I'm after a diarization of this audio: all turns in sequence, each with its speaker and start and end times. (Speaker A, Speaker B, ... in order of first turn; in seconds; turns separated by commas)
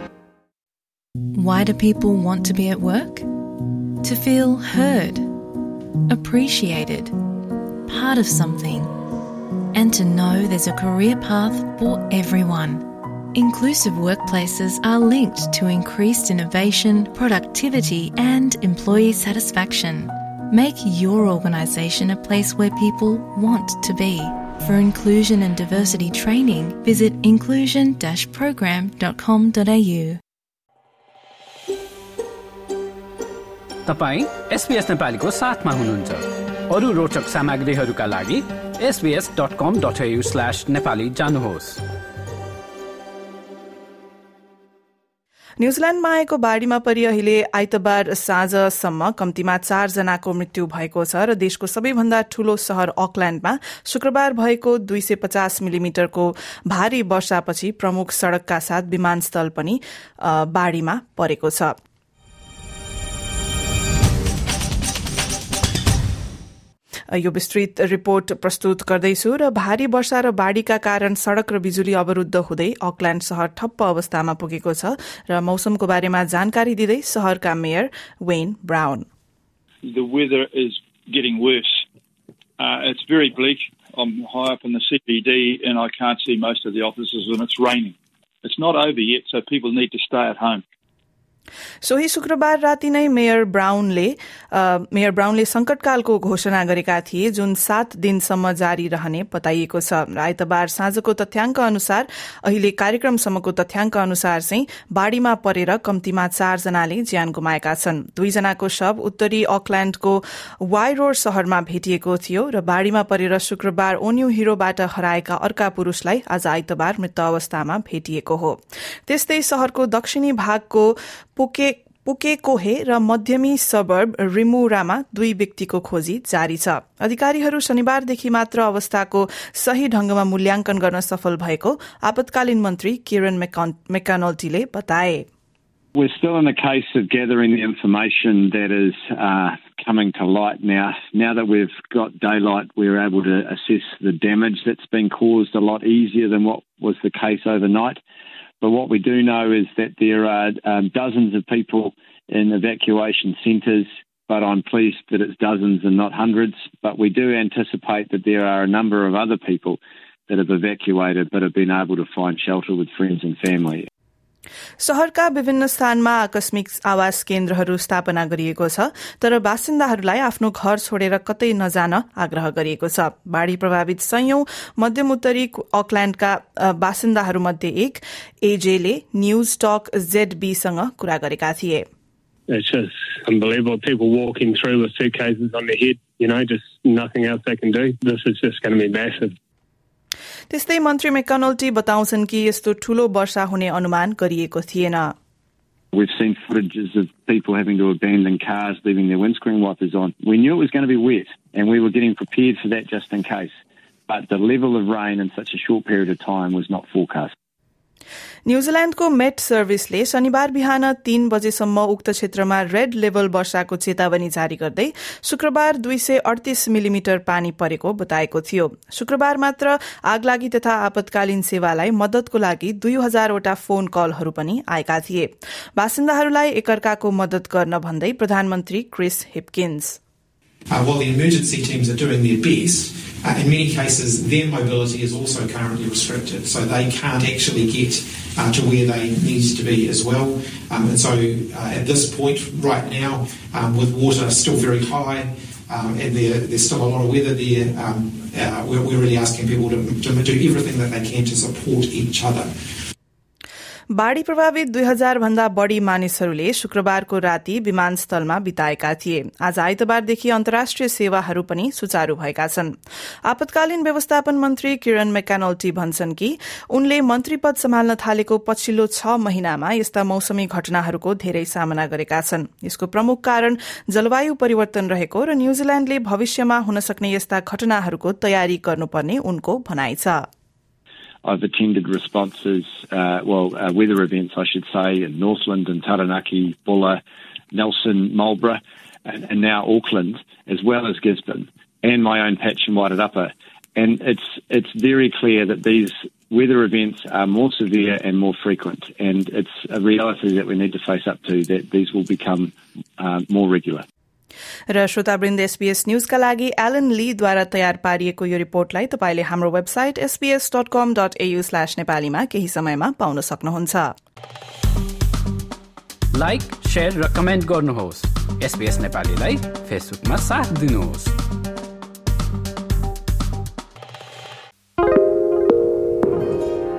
Speaker A: 1.3-3.2, Speaker A: 4.0-5.3, Speaker A: 6.1-7.1, Speaker A: 7.9-8.9, Speaker A: 9.7-30.2, Speaker B: 33.9-41.8, Speaker C: 45.6-61.7, Speaker C: 67.1-79.0, Speaker D: 79.8-81.8, Speaker D: 82.6-90.6, Speaker C: 91.8-135.3, Speaker E: 135.9-148.0, Speaker E: 148.6-163.9, Speaker C: 164.8-181.8, Speaker F: 182.5-189.3, Speaker C: 190.5-195.1, Speaker E: 195.9-203.5, Speaker E: 204.1-207.3, Speaker C: 208.4-230.0, Speaker G: 230.7-252.6, Speaker C: 253.9-280.2, Speaker E: 281.2-287.0, Speaker E: 287.5-303.8, Speaker C: 304.7-313.9, Speaker B: 316.1-321.1